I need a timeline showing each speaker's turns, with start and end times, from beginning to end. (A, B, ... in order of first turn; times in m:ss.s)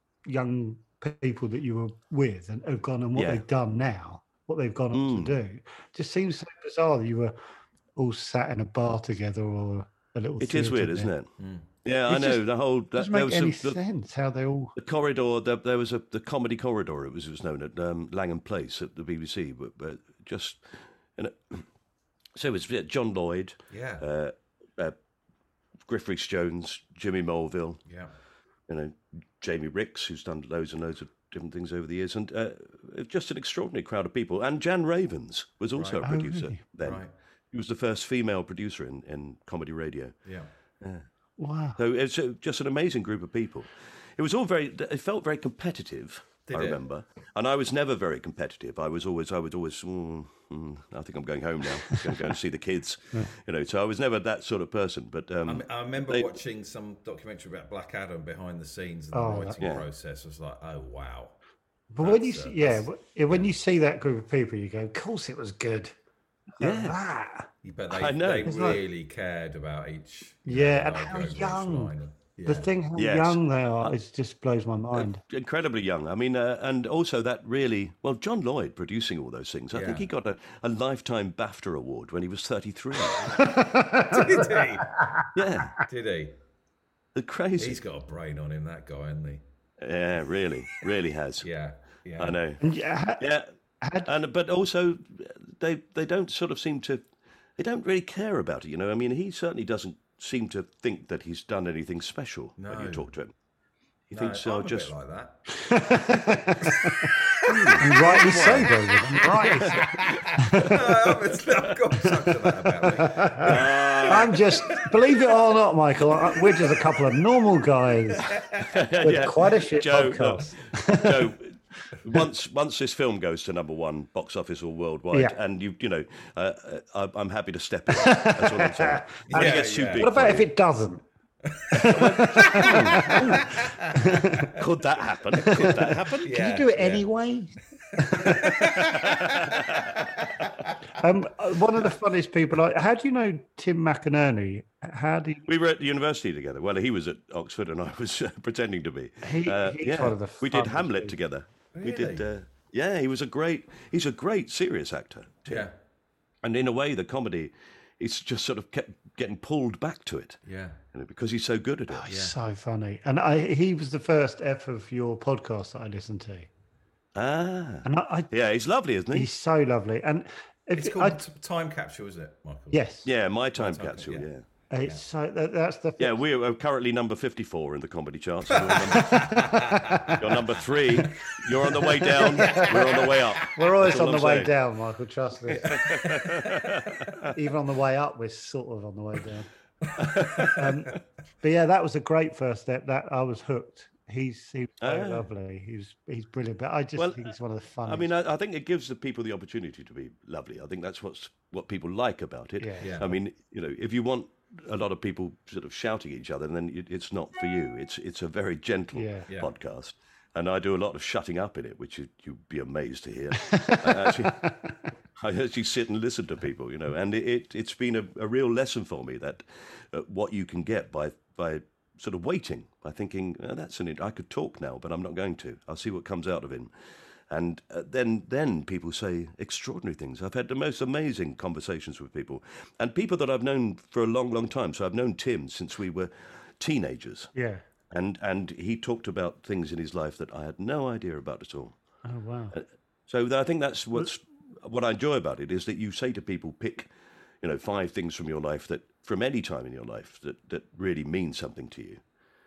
0:00.2-0:07.4 A
0:03.1-0:03.4 B
0:04.9-0:05.4 B
0:08.0-0:11.1 A
0:10.4-0:11.3 B
0:11.4-0:11.6 C
0:11.8-0:13.8 B
0:12.1-0:14.7 A
0:14.8-0:21.7 B
0:22.4-0:25.0 B
0:23.7-0:24.0 C
0:25.8-0:27.8 B
0:27.8-0:28.1 C
0:28.7-0:40.1 B
0:35.7-0:36.0 C
0:36.0-0:36.6 A
0:36.8-0:37.1 C
0:41.4-0:41.8 A
0:41.8-0:56.4 B
0:46.5-0:46.8 C
0:51.9-0:52.2 A
0:55.4-1:01.4 C
0:59.1-0:59.6 A
0:59.6-0:59.8 B
1:01.9-1:05.9 A
1:02.0-1:03.5 C
1:06.6-1:07.5 A
1:06.6-1:07.0 B
1:07.6-1:12.7 C
1:07.9-1:08.6 B
1:08.4-1:08.8 A
1:10.4-1:11.9 A
1:12.4-1:15.2 A
1:13.0-1:13.9 B
1:14.9-1:23.4 B
1:19.7-1:20.1 C
1:23.4-1:25.8 A
1:23.8-1:24.9 C
1:25.3-1:25.7 B
1:25.8-1:26.3 C
1:27.1-1:27.8 B
1:27.6-1:29.4 C
1:29.8-1:31.5 B
1:31.4-1:32.4 C
1:32.2-1:32.6 B
1:32.6-1:33.3 A
1:33.2-1:33.5 B
1:33.8-1:34.1 A
1:34.0-1:37.0 B
1:37.6-1:43.3 B
1:42.6-1:43.1 C
1:44.1-1:44.9 B
1:44.1-1:45.6 C
1:45.5-1:47.2 A
1:47.5-1:48.7 B
1:47.5-1:54.8 C
1:47.7-1:50.9 A
1:52.8-1:58.4 A
1:53.4-1:54.5 B
1:58.2-1:58.8 C
1:58.6-2:10.5 B
1:59.0-2:01.3 A
2:07.9-2:11.0 A
2:09.3-2:10.1 C
2:11.4-2:14.0 C
2:11.7-2:14.5 A
2:11.7-2:13.6 B
2:14.6-2:16.3 B
2:15.4-2:18.5 A
2:15.6-2:17.1 C
2:18.0-2:20.7 C
2:18.2-2:19.9 B
2:21.0-2:25.4 A
2:25.4-2:35.7 B
2:29.2-2:31.2 A
2:31.7-2:32.3 C
2:35.5-2:35.7 C
2:36.4-2:40.4 B
2:40.4-2:40.8 C
2:40.9-2:42.1 B
2:41.9-2:46.5 A
2:42.1-2:42.3 C
2:47.1-2:49.3 B
2:47.8-2:48.3 A
2:49.1-2:51.2 A
2:50.8-2:52.8 C
2:52.7-2:53.1 A
2:53.0-2:54.4 B
2:53.5-2:54.3 C
2:54.7-2:56.2 A
2:56.0-2:59.5 B
2:58.5-3:00.2 C
2:58.9-3:00.2 A
3:00.1-3:04.5 B
3:01.7-3:02.8 A
3:01.8-3:03.5 C
3:03.4-3:05.9 A
3:05.5-3:07.2 C
3:05.6-3:07.3 B
3:07.3-3:09.5 A
3:09.8-3:10.6 C
3:10.0-3:10.7 B
3:10.4-3:18.1 A
3:14.8-3:15.3 B
3:17.0-3:17.3 B
3:17.8-3:46.7 B
3:22.6-3:23.0 A
3:22.8-3:23.1 C
3:28.9-3:29.3 A
3:33.4-3:34.8 A
3:47.3-3:57.3 B
3:57.3-3:57.6 A
3:57.9-4:01.8 B
4:02.0-4:02.5 A
4:02.5-4:12.0 B